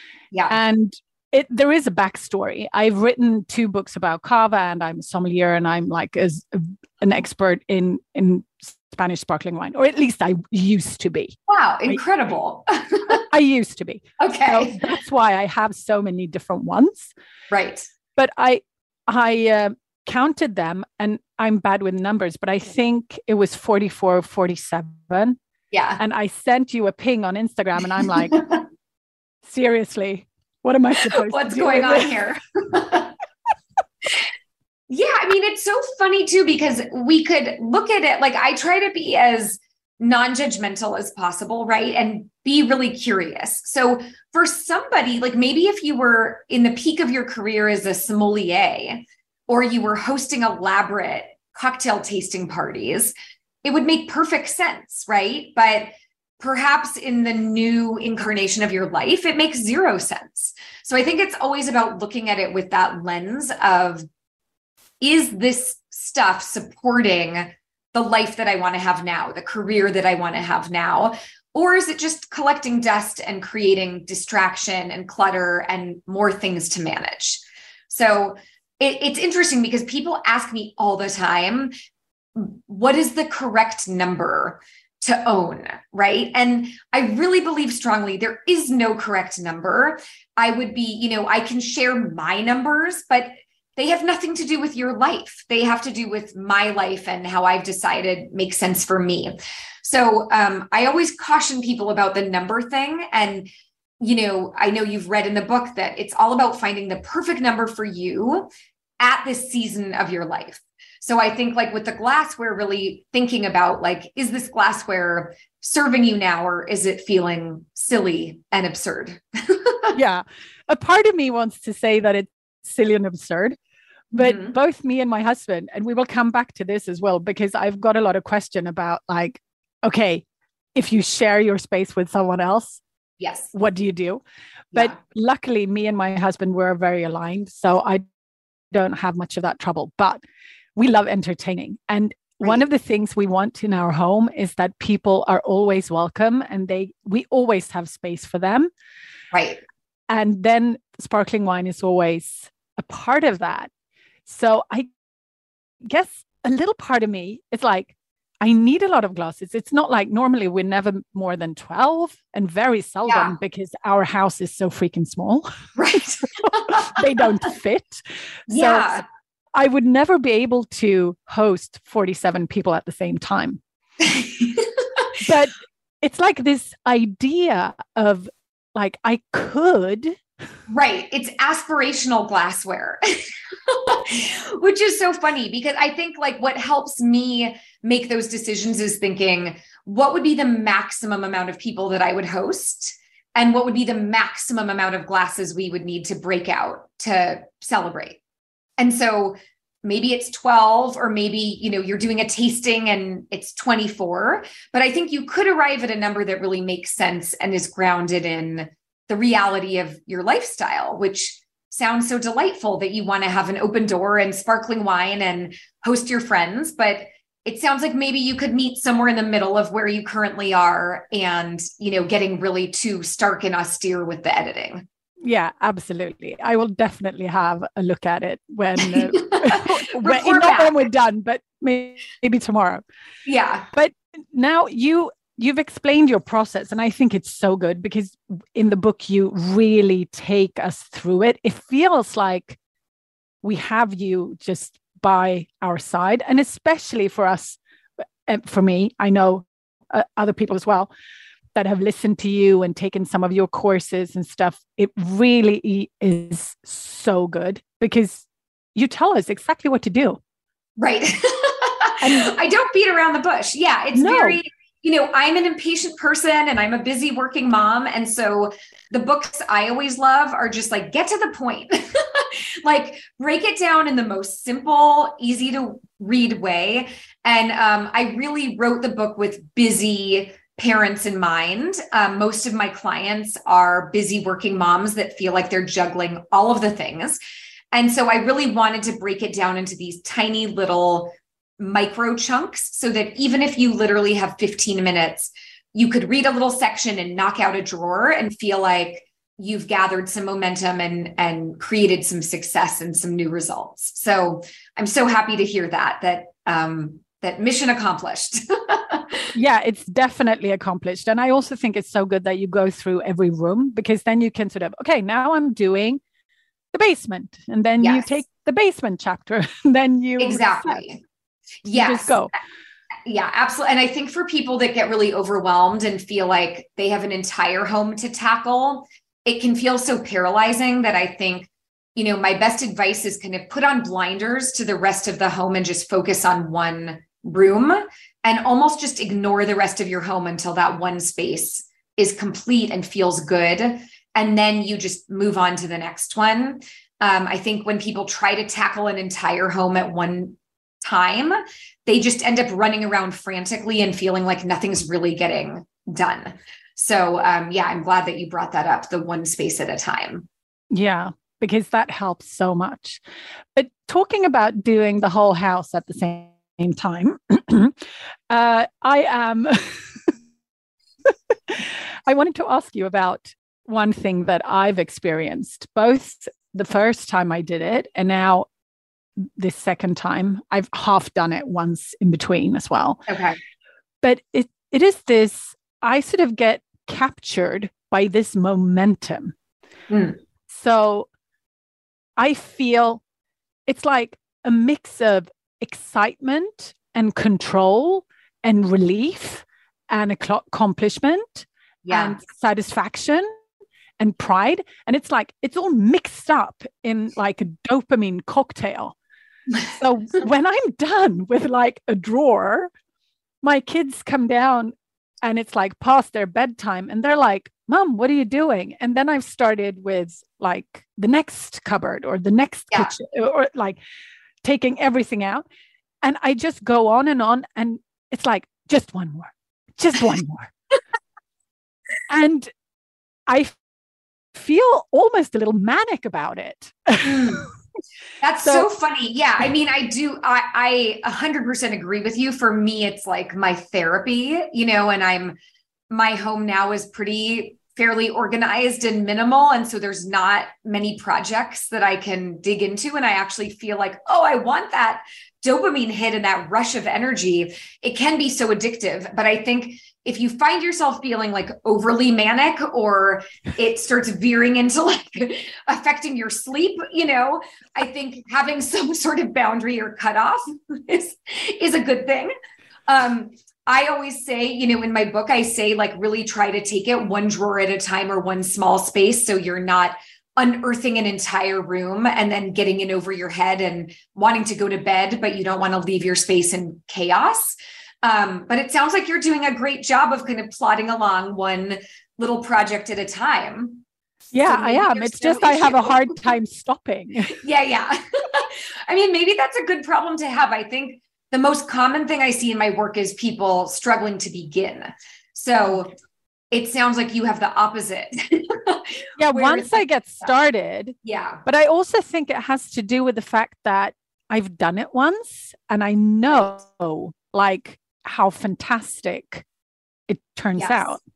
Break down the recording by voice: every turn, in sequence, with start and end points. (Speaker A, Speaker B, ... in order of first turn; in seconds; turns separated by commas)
Speaker A: 0.3-0.6, Speaker B: 0.5-11.3, Speaker A: 11.5-13.2, Speaker B: 13.1-17.1, Speaker A: 14.2-14.8, Speaker A: 17.5-17.9, Speaker B: 18.1-25.4, Speaker A: 25.7-26.0, Speaker B: 26.0-28.5, Speaker B: 29.4-32.1, Speaker A: 31.1-33.1, Speaker A: 34.9-64.0, Speaker A: 65.0-81.7, Speaker A: 82.3-103.5, Speaker A: 104.0-108.5, Speaker A: 109.0-119.9, Speaker B: 119.9-123.6, Speaker A: 124.1-124.6, Speaker B: 124.1-130.2, Speaker B: 130.7-132.8, Speaker A: 133.2-133.5, Speaker B: 133.5-134.2, Speaker B: 134.7-138.0, Speaker B: 138.7-140.2, Speaker B: 140.8-148.7, Speaker A: 149.3-149.6, Speaker B: 150.1-153.7, Speaker B: 154.3-154.9, Speaker B: 155.8-169.0, Speaker A: 163.1-163.3, Speaker A: 165.8-166.9, Speaker A: 168.5-169.0, Speaker B: 169.5-173.6, Speaker A: 174.0-175.0, Speaker B: 175.2-180.2, Speaker A: 180.7-198.2, Speaker A: 198.8-224.8, Speaker B: 225.2-232.8, Speaker A: 228.9-230.7, Speaker A: 233.2-233.7, Speaker B: 233.7-242.6, Speaker B: 243.4-247.6, Speaker B: 248.3-250.9, Speaker B: 251.5-260.2, Speaker A: 260.8-287.2, Speaker B: 262.0-262.3, Speaker B: 263.9-264.4, Speaker A: 287.7-309.3, Speaker B: 309.3-316.0, Speaker B: 316.7-320.8, Speaker A: 317.8-318.1, Speaker A: 320.2-321.0, Speaker A: 321.6-322.2, Speaker B: 321.7-322.3, Speaker A: 323.1-360.2, Speaker B: 360.7-363.0, Speaker B: 363.5-367.7, Speaker B: 368.3-370.1, Speaker B: 371.5-378.4, Speaker B: 379.4-383.1, Speaker A: 383.1-383.4, Speaker B: 384.0-389.3, Speaker A: 389.9-390.2, Speaker B: 390.5-391.1, Speaker B: 392.2-393.0, Speaker B: 393.7-403.3, Speaker A: 401.8-402.2, Speaker B: 404.0-408.9, Speaker B: 409.6-412.7, Speaker B: 413.4-423.8, Speaker B: 424.4-425.4, Speaker B: 426.0-430.5, Speaker B: 432.1-432.5, Speaker B: 433.3-433.5, Speaker B: 434.3-437.4, Speaker A: 437.0-437.4, Speaker A: 438.2-445.4, Speaker A: 445.9-472.3, Speaker A: 472.9-493.8, Speaker B: 494.3-497.4, Speaker A: 494.4-496.1, Speaker A: 497.4-505.9, Speaker A: 506.5-510.3, Speaker B: 509.2-519.4, Speaker A: 511.0-511.4, Speaker B: 520.1-521.0, Speaker A: 520.5-521.0